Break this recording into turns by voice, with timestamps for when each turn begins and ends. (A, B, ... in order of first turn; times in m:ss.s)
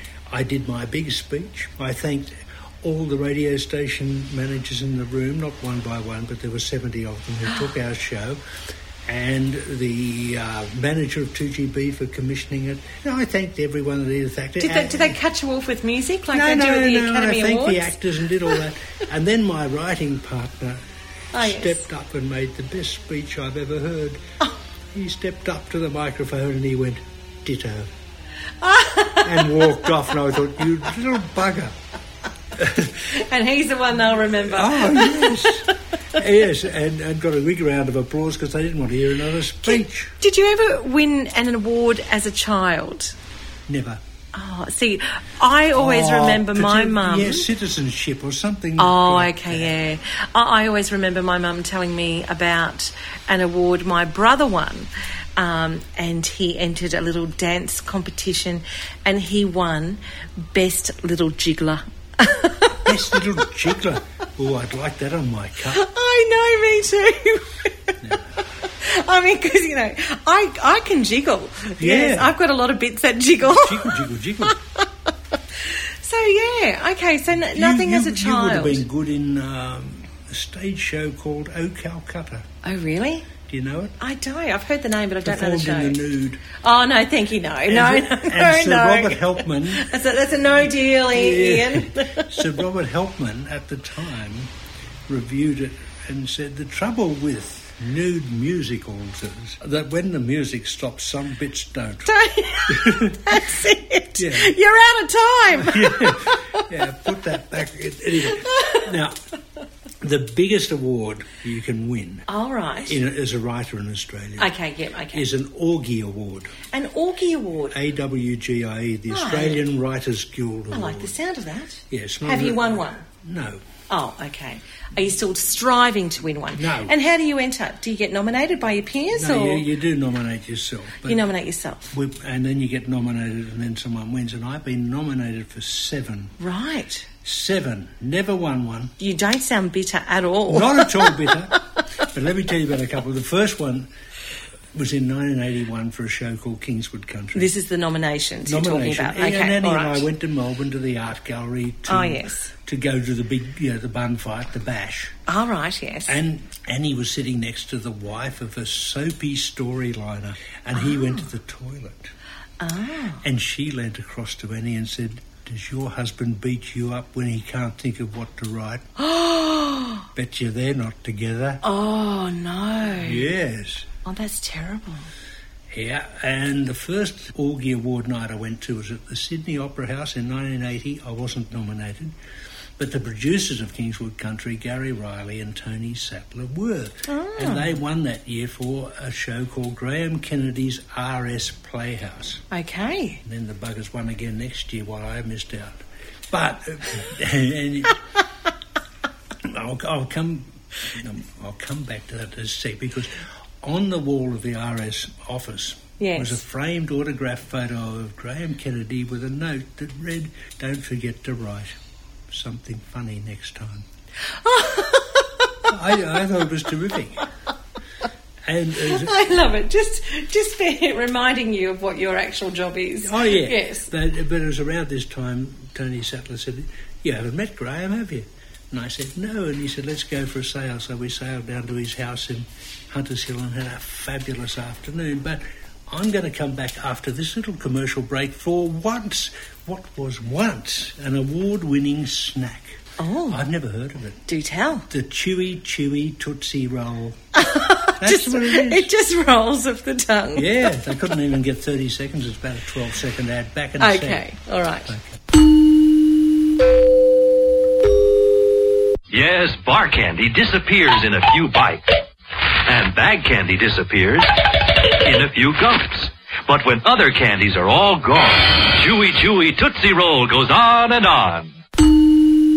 0:00.3-0:08.4 A
0:09.0-0:15.2 A
0:14.6-0:18.0 B
0:16.3-0:20.8 A
0:21.3-0:21.8 B
0:21.4-0:24.2 A
0:24.9-0:27.9 A
0:28.6-0:29.8 B
0:29.2-0:31.8 A
0:32.6-0:32.9 A
0:33.0-0:35.6 B
0:34.5-0:40.1 A
0:39.6-0:43.2 B
0:43.7-0:44.0 A
0:44.3-0:47.5 B
0:45.7-0:49.8 A
0:48.8-1:03.0 B
1:02.7-1:05.8 A
1:05.7-1:08.0 B
1:08.0-1:08.3 A
1:08.7-1:14.9 B
1:11.8-1:12.3 A
1:13.4-1:14.6 A
1:15.6-1:18.8 B
1:17.5-1:22.5 A
1:22.6-1:23.3 B
1:23.5-1:24.0 A
1:24.0-1:26.0 B
1:25.2-1:26.4 A
1:26.6-1:32.4 B
1:27.7-1:29.9 A
1:31.1-1:34.5 A
1:35.1-1:42.2 A
1:42.1-1:46.6 B
1:42.7-1:43.5 A
1:44.2-1:44.5 A
1:45.6-1:49.2 A
1:48.4-1:48.8 B
1:50.0-1:52.3 A
1:52.3-1:53.0 B
1:52.8-1:54.5 A
1:54.4-1:55.2 B
1:55.1-1:56.5 A
1:56.7-1:57.7 B
1:57.7-2:01.2 A
1:59.1-1:59.6 B
2:00.7-2:03.0 B
2:01.9-2:03.6 A
2:03.9-2:09.7 B
2:06.6-2:06.9 A
2:09.1-2:11.3 A
2:11.0-2:11.9 B
2:11.9-2:16.4 A
2:16.4-2:17.1 B
2:17.2-2:18.9 A
2:19.0-2:21.2 B
2:20.5-2:23.9 A
2:24.7-2:27.5 A
2:27.3-2:30.1 B
2:28.4-2:35.2 A
2:31.9-2:32.5 B
2:35.3-2:36.2 B
2:36.1-2:42.1 A
2:40.8-2:41.2 B
2:42.6-2:43.2 B
2:43.2-2:48.8 A
2:49.0-2:50.0 B
2:50.1-2:51.6 A
2:51.6-2:53.3 B
2:52.9-2:53.9 A
2:54.0-2:55.1 B
2:55.7-3:02.2 A
3:02.8-3:12.4 A
3:07.1-3:07.8 B
3:12.5-3:13.2 B
3:13.2-3:18.0 A
3:19.4-3:31.8 A
3:26.0-3:26.4 B
3:32.3-3:33.9 A
3:34.4-3:35.7 B
3:35.7-3:37.3 A
3:38.5-3:39.2 A
3:38.8-3:43.9 B
3:43.0-4:04.2 A
4:03.0-4:03.4 B
4:04.3-4:04.9 B
4:04.9-4:07.2 A
4:07.4-4:10.8 B
4:08.0-4:08.9 A
4:10.4-4:14.2 A
4:13.8-4:14.9 B
4:14.8-4:15.2 A
4:19.1-4:22.0 C
4:22.7-4:31.5 C